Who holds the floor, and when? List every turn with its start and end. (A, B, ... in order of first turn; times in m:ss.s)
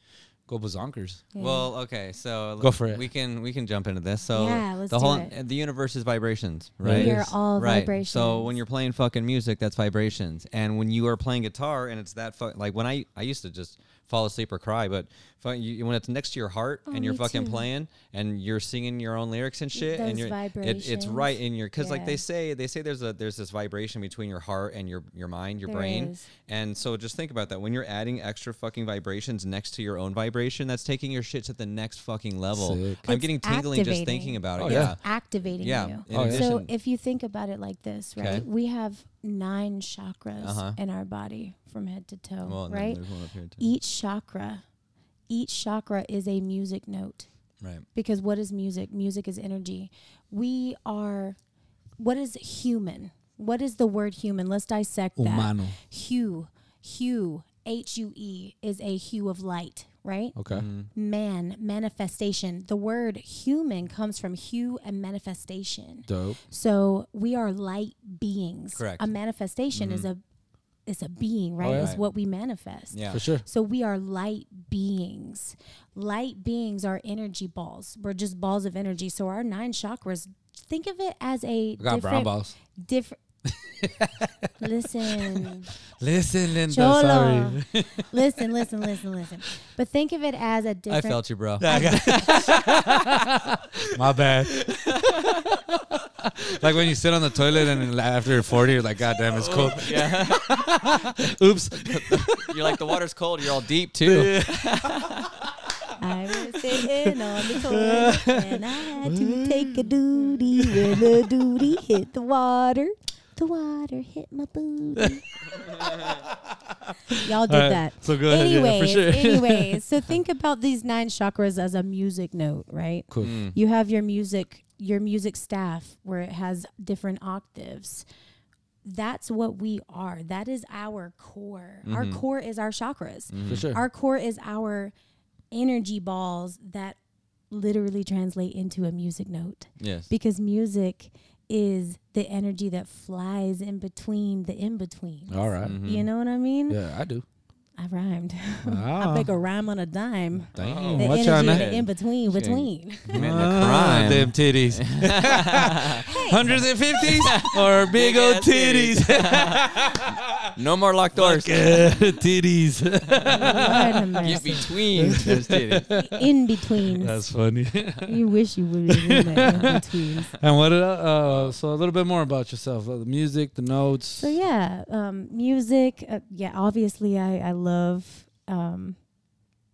0:00.5-0:01.2 A
0:01.3-0:01.7 B
0:01.4-0:36.7 C
0:02.6-0:03.1 A
0:04.3-0:05.3 B
0:06.8-0:07.4 A
0:06.9-0:08.6 B
0:16.9-0:17.7 B
0:19.8-0:22.2 B
0:25.6-0:26.3 B
0:32.5-0:33.0 A
0:33.0-0:43.0 B
0:34.6-0:35.0 A
0:36.1-0:36.5 A
0:38.2-0:38.5 C
0:40.4-0:40.8 C
0:42.4-0:43.7 C
0:43.6-0:44.6 B
0:45.3-0:47.3 B
0:48.0-0:51.4 B
0:52.0-1:00.4 B
0:55.2-0:55.8 A
1:00.4-1:00.7 A
1:00.5-1:00.9 C
1:00.9-1:10.2 B
1:06.0-1:06.4 A
1:08.7-1:09.1 C
1:09.7-1:10.1 C
1:10.9-1:23.2 B
1:11.6-1:11.9 A
1:11.7-1:12.0 C
1:12.9-1:13.2 C
1:13.1-1:13.4 A
1:21.8-1:22.5 A
1:23.5-1:24.5 A
1:24.6-1:25.7 B
1:25.2-1:25.4 A
1:26.0-1:28.1 A
1:26.7-1:32.5 B
1:30.9-1:33.2 C
1:31.6-1:34.6 A
1:34.5-1:35.4 C
1:35.1-1:42.7 A
1:39.2-1:41.1 C
1:41.7-1:45.3 C
1:44.1-1:46.0 A
1:46.0-1:55.3 B
1:46.7-1:51.3 A
1:55.0-1:59.9 A
1:57.2-2:08.0 B
2:03.1-2:03.4 A
2:03.2-2:03.6 C
2:08.8-2:14.9 B
2:11.8-2:12.2 C
2:13.3-2:13.7 C
2:13.5-2:13.8 A
2:15.5-2:17.0 B
2:17.5-2:26.8 B
2:19.8-2:20.1 C
2:25.3-2:25.8 A
2:25.6-2:26.1 C
2:26.7-2:27.2 A
2:27.8-2:33.2 B
2:28.6-2:29.3 A
2:30.6-2:31.7 A
2:30.6-2:36.1 C
2:33.1-2:40.5 A
2:36.1-2:36.7 B
2:37.0-2:42.0 C
2:41.1-2:46.2 A
2:43.2-2:46.0 C
2:43.3-2:44.7 B
2:46.0-2:47.2 B
2:46.8-2:48.1 A
2:48.1-2:50.3 B
2:48.9-2:49.8 A
2:49.4-2:49.8 C
2:50.4-2:54.4 A
2:51.2-2:51.6 C
2:54.2-2:59.0 B